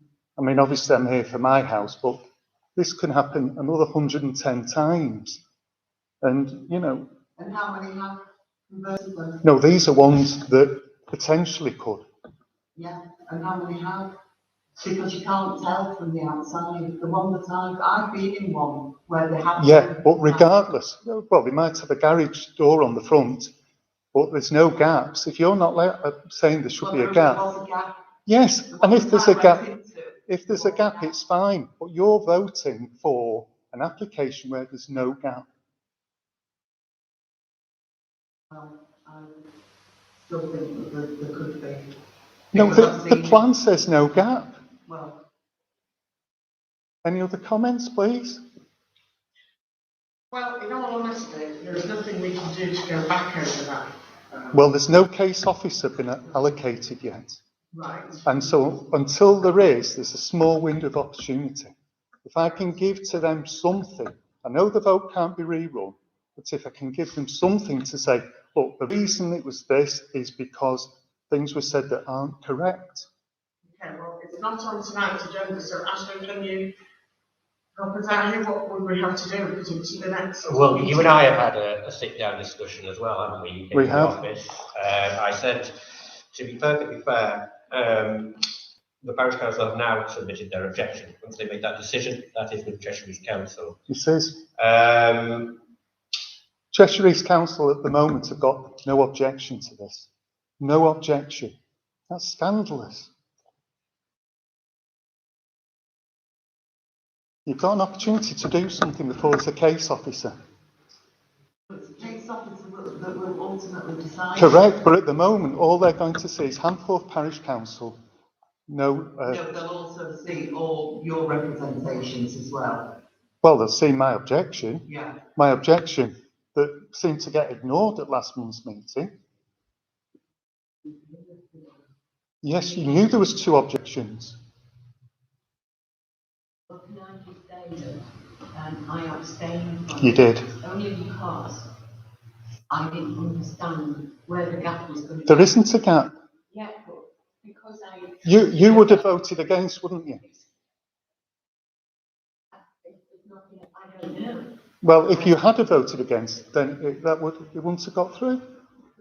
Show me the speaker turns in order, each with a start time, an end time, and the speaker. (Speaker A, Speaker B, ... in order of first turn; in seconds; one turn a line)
Speaker A: 0.4-2.2
Speaker A: 2.8-5.4
Speaker A: 6.2-7.1
Speaker B: 7.4-9.4
Speaker A: 9.4-12.1
Speaker B: 12.8-14.1
Speaker B: 14.8-20.5
Speaker A: 19.6-23.5
Speaker A: 24.1-27.5
Speaker B: 26.8-27.9
Speaker A: 28.3-29.7
Speaker B: 28.7-31.0
Speaker A: 30.3-35.5
Speaker B: 38.5-39.4
Speaker B: 40.2-41.9
Speaker A: 42.5-44.6
Speaker B: 42.5-43.4
Speaker B: 44.8-45.2
Speaker A: 47.0-48.4
Speaker C: 50.3-54.5
Speaker A: 54.5-57.4
Speaker C: 57.7-58.2
Speaker A: 58.2-61.7
Speaker A: 62.2-73.1
Speaker C: 73.7-76.7
Speaker C: 77.8-81.4
Speaker D: 80.4-88.4
Speaker A: 83.7-84.2
Speaker D: 89.0-93.8
Speaker A: 93.9-94.4
Speaker D: 94.5-95.6
Speaker A: 96.7-100.1
Speaker A: 100.6-101.5
Speaker A: 102.1-103.1
Speaker A: 107.5-110.3
Speaker B: 111.7-114.6
Speaker A: 114.4-118.0
Speaker A: 118.7-119.4
Speaker B: 119.2-123.0
Speaker A: 123.4-129.1
Speaker B: 124.9-125.2
Speaker E: 130.8-131.8
Speaker A: 132.4-134.3
Speaker E: 136.7-141.7
Speaker A: 140.0-140.5
Speaker E: 142.7-145.6
Speaker A: 145.2-146.1
Speaker E: 146.5-149.1
Speaker A: 148.2-150.2
Speaker E: 152.8-154.5
Speaker A: 154.8-158.4